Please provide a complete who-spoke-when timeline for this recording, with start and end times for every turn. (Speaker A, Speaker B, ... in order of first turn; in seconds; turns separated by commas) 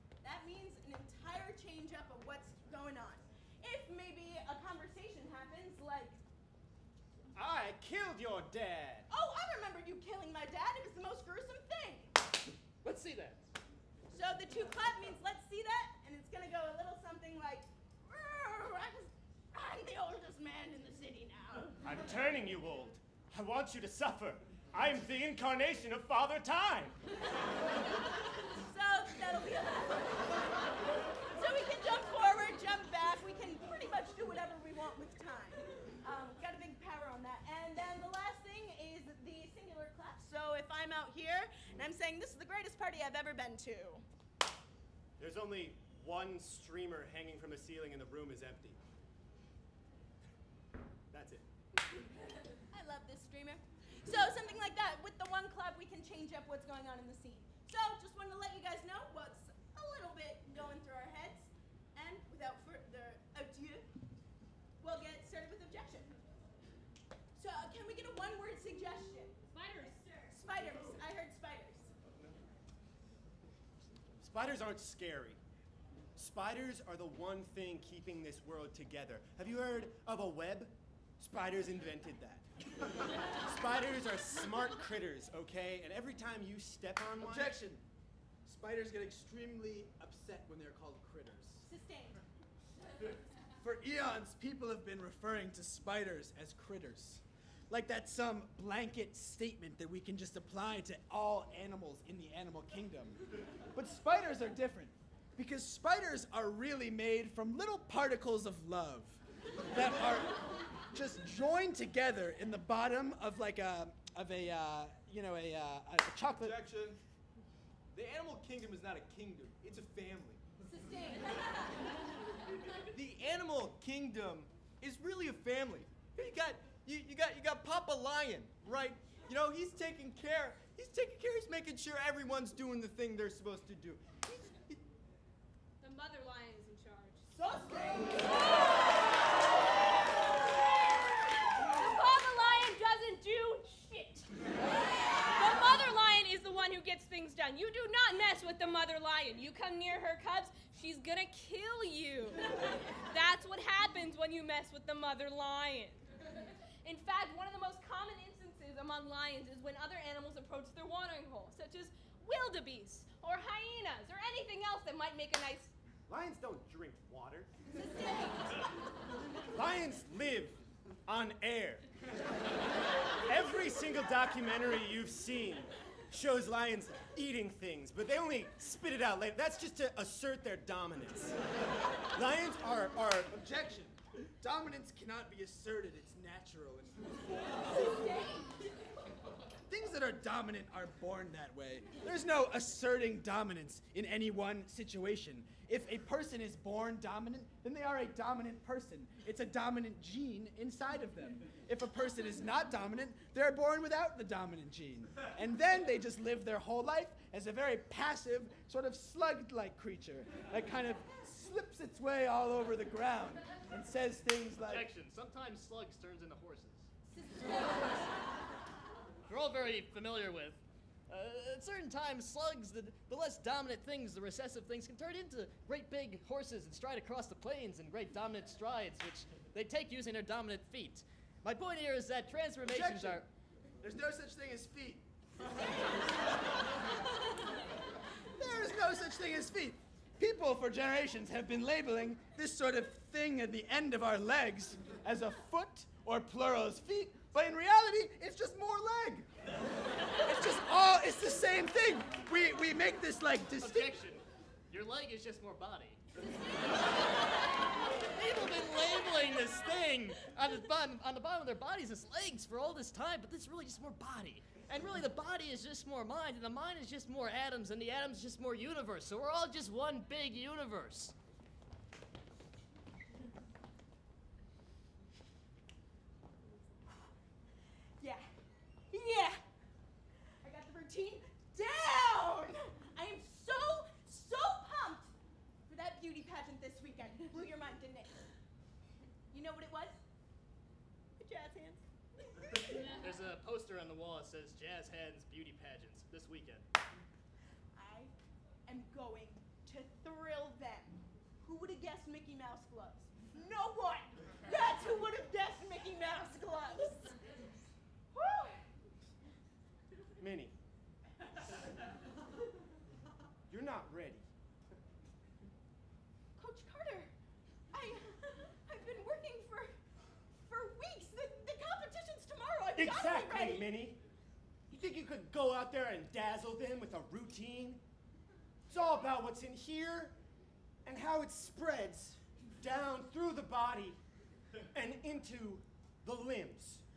Speaker A: 0.2-6.2, Speaker B: 7.3-9.1, Speaker A: 9.1-12.1, Speaker C: 12.8-13.5, Speaker A: 14.1-21.8, Speaker B: 21.8-27.0, Speaker A: 28.6-30.4, Speaker A: 31.3-44.0, Speaker B: 45.2-48.8, Speaker B: 51.1-51.5, Speaker A: 52.7-63.9, Speaker A: 64.8-66.1, Speaker A: 67.3-71.9, Speaker D: 69.5-70.3, Speaker B: 74.2-75.4, Speaker B: 76.2-82.5, Speaker B: 83.3-87.5, Speaker E: 87.2-87.8, Speaker E: 88.4-91.7, Speaker A: 91.6-92.2, Speaker E: 93.6-103.2, Speaker E: 103.7-116.6, Speaker F: 116.3-117.0, Speaker F: 117.9-120.4, Speaker A: 120.7-121.4, Speaker F: 122.9-134.8, Speaker D: 135.8-137.5, Speaker A: 137.4-138.4, Speaker D: 141.6-144.3, Speaker D: 145.3-156.0, Speaker D: 156.8-165.7, Speaker B: 166.1-167.5, Speaker A: 167.7-168.6, Speaker B: 169.5-171.9, Speaker B: 173.2-181.4, Speaker B: 182.1-183.3, Speaker E: 183.3-187.6, Speaker E: 189.7-214.9, Speaker C: 214.6-216.9, Speaker A: 217.1-218.1, Speaker C: 219.3-233.3, Speaker E: 232.6-233.2, Speaker E: 233.8-235.1, Speaker E: 238.3-249.3, Speaker E: 250.2-253.9, Speaker C: 253.6-256.0, Speaker C: 258.0-271.1, Speaker A: 278.0-278.3, Speaker A: 278.9-279.4, Speaker A: 280.4-285.1, Speaker A: 285.7-288.1, Speaker A: 289.3-290.0, Speaker A: 291.2-292.9, Speaker C: 292.9-296.6, Speaker A: 297.7-298.1, Speaker A: 298.7-307.1, Speaker A: 308.1-308.6, Speaker B: 310.2-310.5, Speaker B: 313.5-314.3, Speaker A: 316.4-317.1, Speaker A: 317.7-319.7, Speaker A: 320.4-323.7, Speaker B: 322.8-324.0, Speaker B: 324.7-327.8, Speaker B: 328.7-330.2, Speaker B: 330.8-334.0, Speaker B: 334.7-336.8